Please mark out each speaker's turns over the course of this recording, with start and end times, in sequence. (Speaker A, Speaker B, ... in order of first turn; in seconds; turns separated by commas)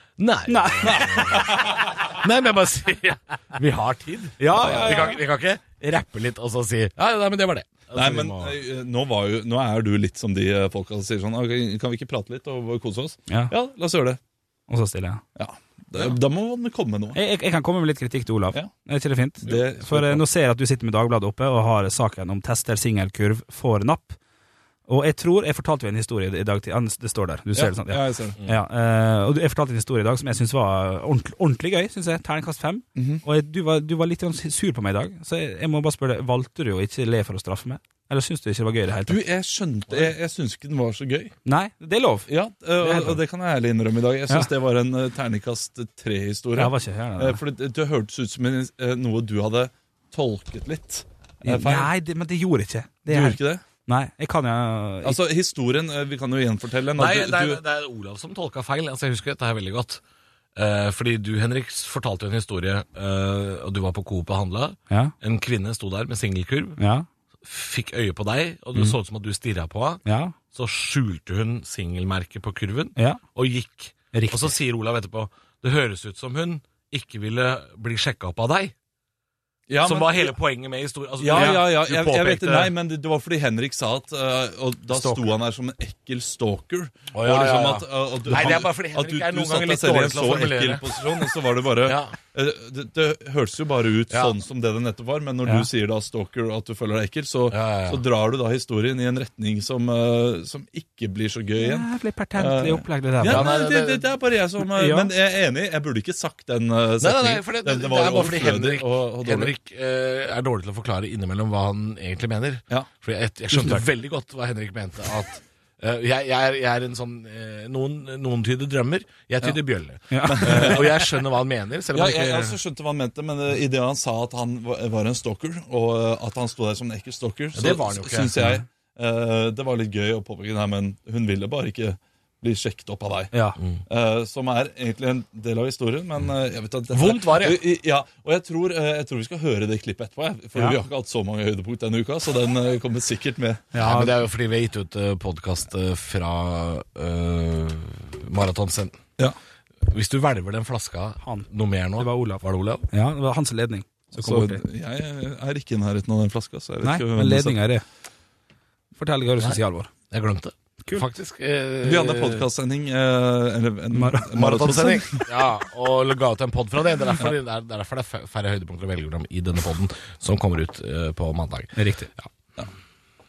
Speaker A: 0.2-8.6, Speaker B: 0.5-1.3, Speaker C: 0.9-2.0, Speaker B: 4.4-5.2, Speaker C: 4.5-5.2, Speaker C: 7.9-14.2, Speaker B: 14.7-15.2, Speaker C: 15.4-17.2, Speaker B: 17.1-24.2, Speaker C: 19.4-20.2, Speaker B: 24.9-39.2, Speaker C: 27.6-28.4, Speaker C: 33.0-33.2, Speaker C: 39.1-41.3, Speaker B: 41.5-43.2, Speaker C: 42.3-51.9, Speaker B: 46.5-47.4, Speaker B: 51.4-55.2, Speaker C: 53.1-53.6, Speaker C: 55.0-57.6, Speaker A: 57.0-60.0, Speaker A: 60.6-66.8, Speaker B: 66.8-67.1, Speaker A: 67.4-78.7, Speaker B: 70.1-70.3, Speaker B: 74.1-74.5, Speaker C: 79.7-80.3, Speaker A: 79.8-82.6, Speaker C: 81.2-109.5, Speaker B: 81.3-81.7, Speaker B: 82.4-82.7, Speaker A: 84.9-85.2, Speaker A: 87.1-91.3, Speaker A: 91.8-92.2, Speaker A: 94.1-94.3, Speaker A: 97.5-98.0, Speaker B: 101.6-103.5, Speaker A: 103.2-104.1, Speaker B: 104.6-105.1, Speaker A: 107.0-122.6, Speaker B: 120.1-120.8, Speaker C: 120.3-120.9, Speaker C: 121.9-133.3, Speaker A: 127.5-128.3, Speaker B: 133.3-133.6, Speaker C: 133.9-143.7, Speaker A: 136.9-137.6, Speaker B: 143.7-144.2, Speaker A: 143.8-149.0, Speaker A: 149.8-152.9, Speaker B: 151.2-151.5, Speaker B: 152.0-154.6, Speaker C: 154.1-157.6, Speaker B: 156.8-157.8, Speaker B: 158.9-159.9, Speaker A: 159.4-162.5, Speaker C: 161.8-165.3, Speaker B: 163.9-164.3, Speaker A: 164.3-172.3, Speaker B: 171.8-172.1